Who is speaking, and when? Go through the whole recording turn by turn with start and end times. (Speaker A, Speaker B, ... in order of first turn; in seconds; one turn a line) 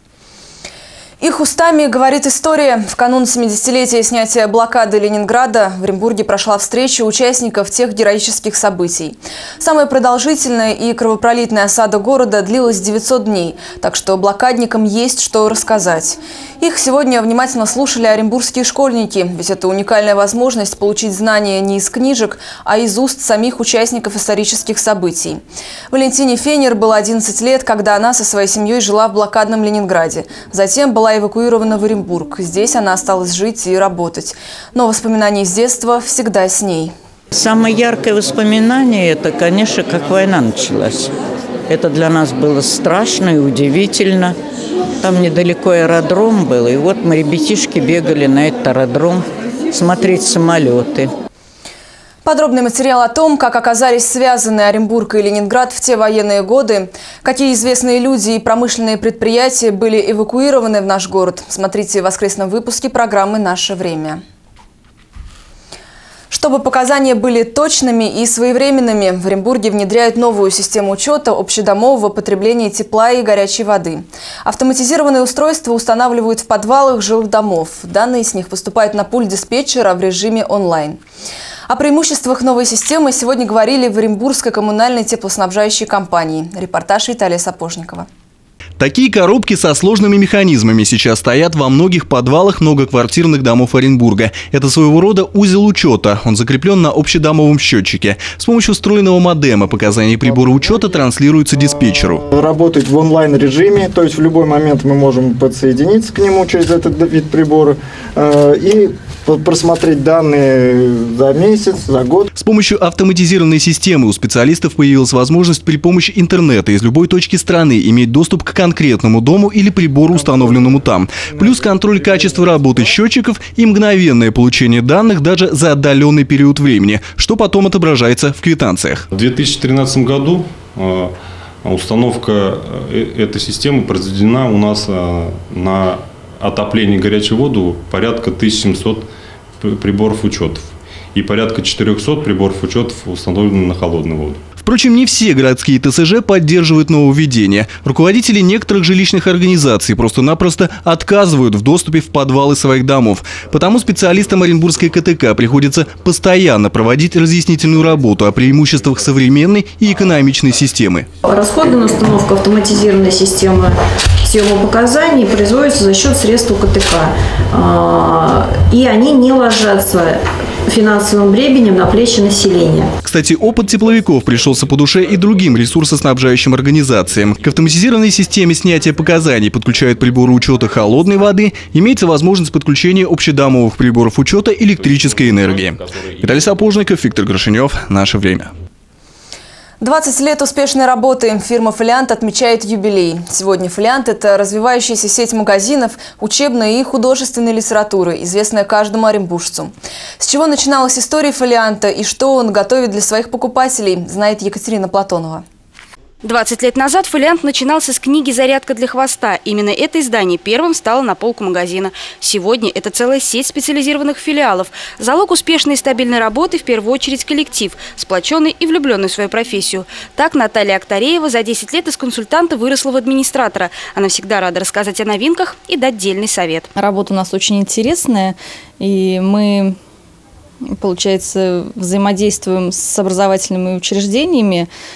Speaker A: 1.2-25.4
Speaker A: 25.9-36.9
Speaker B: 37.3-41.1
Speaker B: 41.7-44.4
Speaker B: 45.0-51.1
Speaker A: 52.2-64.2
Speaker A: 66.3-81.0
Speaker A: 81.7-88.1
Speaker C: 88.8-102.2
Speaker D: 100.5-100.9
Speaker D: 101.6-112.3
Speaker C: 112.4-129.1
Speaker E: 129.1-139.1
Speaker E: 139.6-144.4
Speaker C: 144.6-161.1
Speaker F: 161.2-172.9
Speaker C: 173.0-188.5
Speaker A: 189.8-205.4
Speaker G: 206.2-226.7
Speaker H: 226.8-229.8
Speaker H: 230.7-234.7